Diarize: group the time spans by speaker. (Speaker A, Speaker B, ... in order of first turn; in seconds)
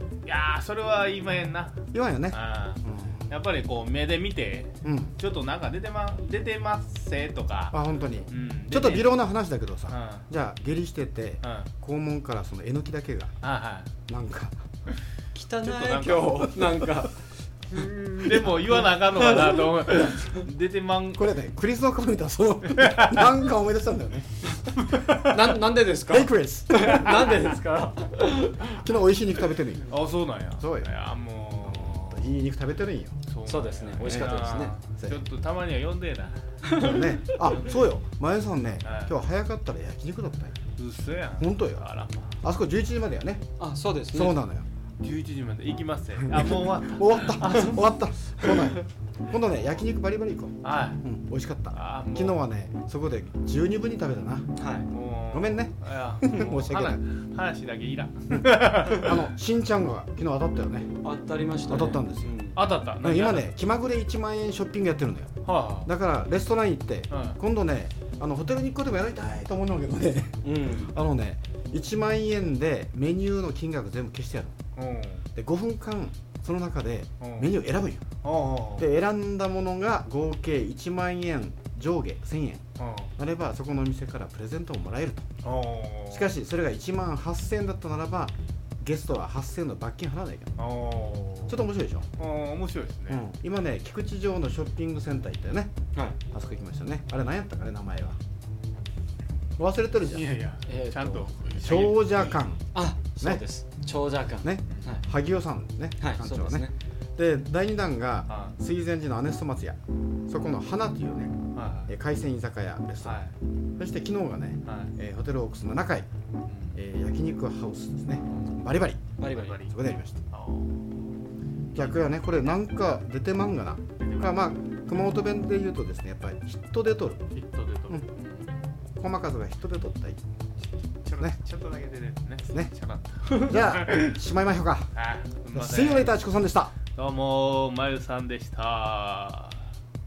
Speaker A: 0.3-7.8, 8.3-9.2, 9.9-10.3, 11.4-11.7, 13.4-13.9, 15.5-16.9, 17.7-21.4, 22.7-23.4, 24.9-25.4, 26.9-27.2, 29.9-32.4, 33.3-36.4, 37.5-37.8, 38.8-39.1, 40.8-42.3, 45.0-48.8, 50.6-51.0, 51.7-52.5, 54.9-59.2, 62.5-63.5, 65.4-65.9, 67.1-67.4, 74.8-75.3, 77.2-77.5, 78.2-78.9, 82.8-83.1, 85.4-86.3, 90.6-91.6, 92.2-93.2, 100.0-102.4, 108.3-108.6, 111.5-111.9, 113.0-113.3, 114.7-115.0, 116.5-116.8, 118.3-118.6, 119.2-119.8, 120.3-121.0, 124.0-124.6, 127.3-128.6, 131.0-134.2, 134.9-136.1, 136.9-139.6
Speaker B: 1.9-3.3, 4.8-5.2, 7.7-13.3, 14.1-14.5, 21.1-24.6, 26.0-27.4, 28.6-29.9, 30.6-30.9, 31.6-33.2, 34.0-35.2, 36.7-40.6, 41.4-41.9, 42.4-43.5, 44.1-44.7, 46.2-54.6, 55.3-57.0, 58.4-60.9, 61.7-62.4, 63.0-65.3, 65.8-74.5, 75.4-78.1, 78.8-82.6, 83.2-85.2, 86.1-90.5, 91.5-92.1, 93.1-95.7, 96.3-98.2, 99.6-100.3, 101.6-103.5, 104.4-113.2, 113.8-116.1, 116.8-119.1, 119.7-120.2, 121.8-127.3, 129.0-130.2, 133.3-134.9, 135.5-136.7
Speaker C: 15.3-17.2, 25.3-28.8, 33.5-34.8, 36.6-37.6, 43.6-44.4, 54.6-54.9, 61.0-62.6, 70.4-70.9, 100.7-101.4, 102.7-105.1, 106.0-106.7, 119.2-119.7